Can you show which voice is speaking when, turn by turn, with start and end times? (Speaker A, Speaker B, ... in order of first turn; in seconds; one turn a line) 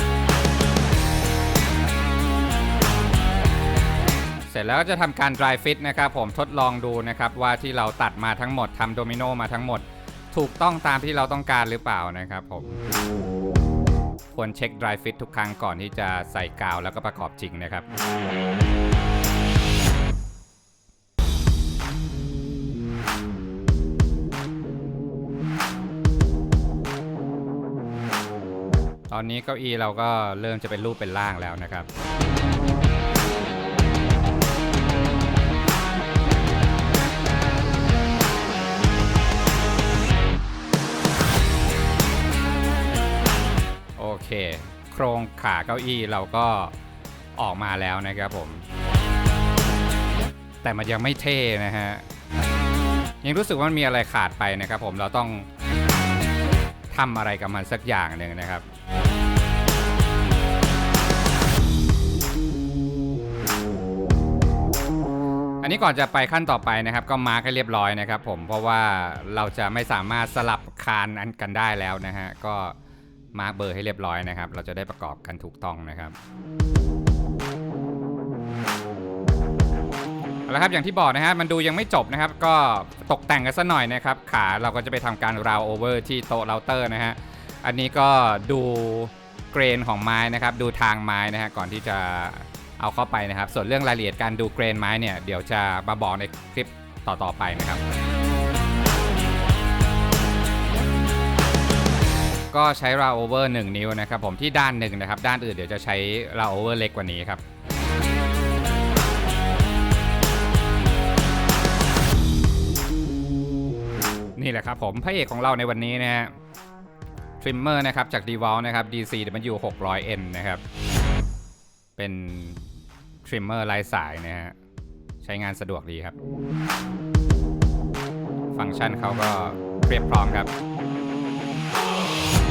Speaker A: 4.5-12.8
Speaker A: 14.3-17.9
Speaker A: 29.1-31.9
Speaker A: 44.0-46.7
Speaker A: 47.4-48.7
Speaker A: 50.6-52.1
Speaker A: 53.2-55.5
Speaker A: 56.9-58.6
Speaker A: 65.6-72.8
Speaker A: 73.3-76.2
Speaker A: 80.5-97.8
Speaker A: 102.5-107.4
Speaker A: 114.4-116.3
Speaker A: 117.4-120.6
Speaker A: 122.0-124.5
Speaker A: 125.2-126.2
Speaker A: 128.5-130.5